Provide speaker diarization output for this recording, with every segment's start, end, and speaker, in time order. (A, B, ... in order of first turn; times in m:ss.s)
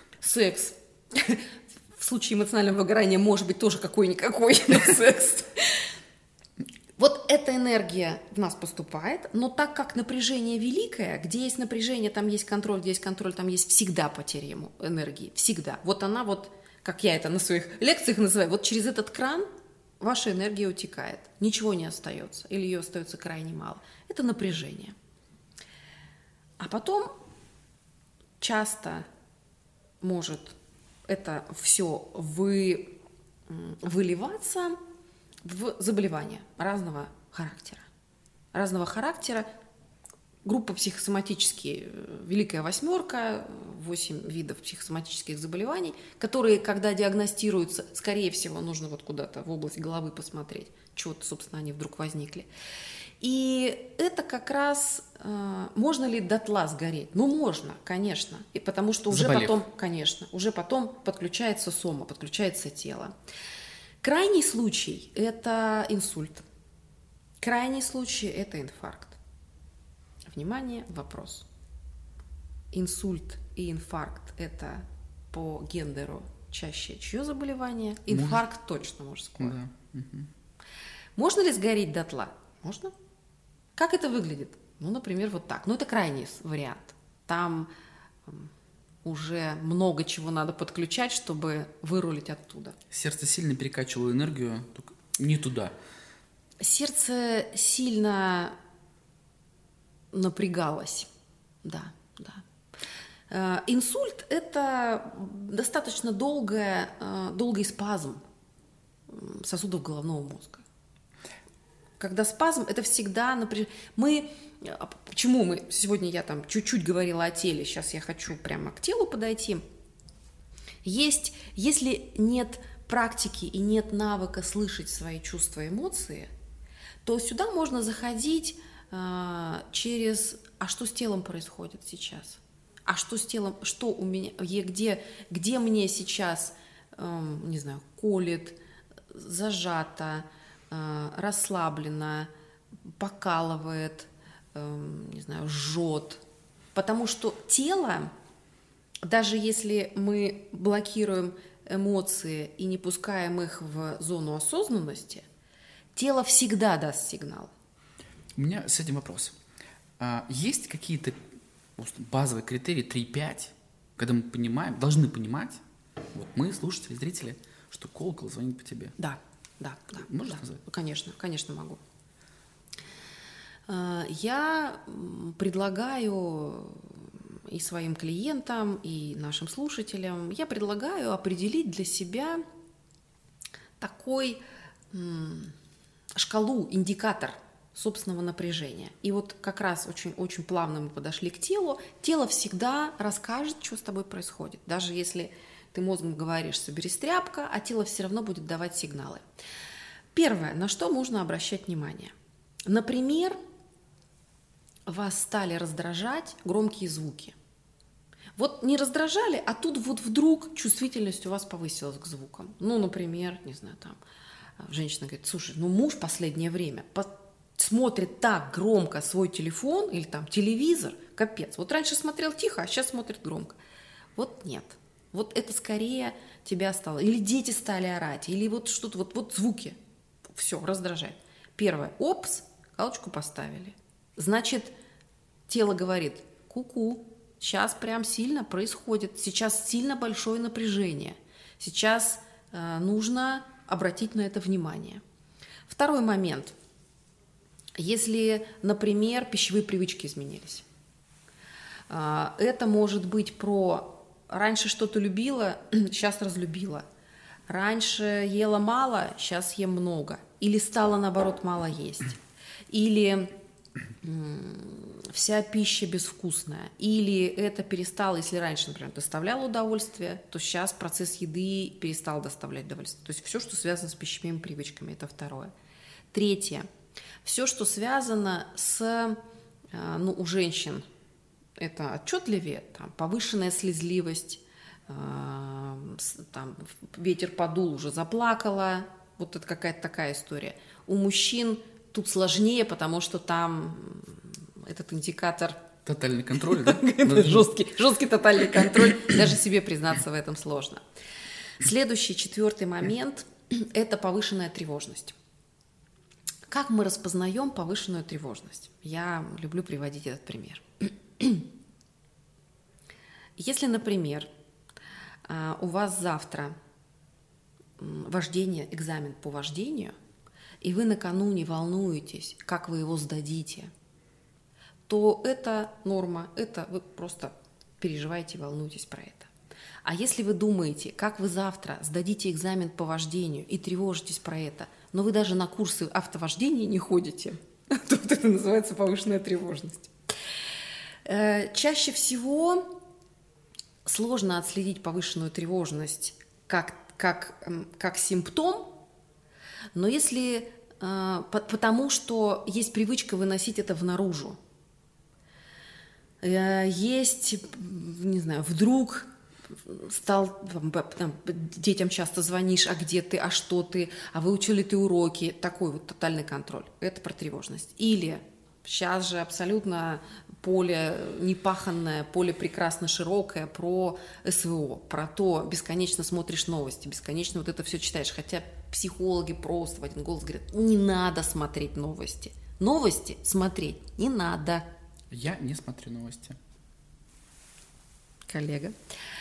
0:00.2-0:05.9 A
0:07.0-0:19.5 A
0:20.0-0:24.9 A
0:26.6-0:27.1 A
0:28.4-0:29.1 A
0:30.0-0:34.8 A
0:35.4-0:37.9 A
0:38.5-0:39.5 A
0:40.4-0:52.5 A
0:53.2-1:03.2 A
0:59.1-0:59.6 B
1:04.0-1:06.4 A
1:07.4-1:09.2 A
1:10.2-1:11.4 A
1:12.7-1:19.6 A
1:18.1-1:18.4 B
1:19.4-1:20.3 B
1:21.2-1:22.9 A
1:23.7-1:27.7 A
1:28.2-1:28.5 A
1:29.0-1:32.8 A
1:32.9-1:35.7 B
1:36.6-1:38.6 A
1:40.1-1:41.1 A
1:41.6-1:42.4 A
1:43.3-1:48.2 A
1:49.1-1:50.6 A
1:52.0-1:59.6 A
2:00.8-2:06.3 A
2:07.0-2:18.6 A
2:19.1-2:22.3 A
2:22.8-2:26.2 A
2:26.7-2:28.1 A
2:29.0-2:35.2 A
2:35.9-2:37.5 A
2:38.4-2:39.3 B
2:40.0-2:41.2 B
2:41.8-2:45.6 B
2:46.1-2:49.0 B
2:49.0-2:51.8 A
2:50.0-2:50.6 B
2:53.7-3:02.4 A
3:03.8-3:05.5 A
3:06.1-3:19.2 A
3:20.1-3:22.1 A
3:22.6-3:23.4 A
3:24.8-3:27.4 A
3:28.4-3:34.0 A
3:34.6-3:43.6 A
3:44.1-3:49.8 A
3:50.3-3:54.7 A
3:55.5-4:05.0 A
4:05.7-4:06.5 A
4:07.7-4:10.6 A
4:11.9-4:16.8 A
4:17.5-4:23.4 A
4:24.0-4:35.5 A
4:36.1-4:36.7 A
4:37.2-4:39.2 A
4:39.7-4:40.8 A
4:41.6-4:55.6 A
4:55.8-4:57.5 B
4:56.5-5:00.8 A
5:01.6-5:05.1 A
5:06.5-5:11.5 A
5:13.4-5:14.3 A
5:15.2-5:16.6 A
5:17.8-5:20.0 A
5:20.6-5:23.7 A
5:24.9-5:29.3 A
5:29.8-5:39.9 A
5:41.0-5:42.8 A
5:43.8-5:48.8 A
5:49.7-5:54.4 A
5:56.2-6:24.7 A
6:25.1-6:26.4 B
6:28.3-6:28.8 A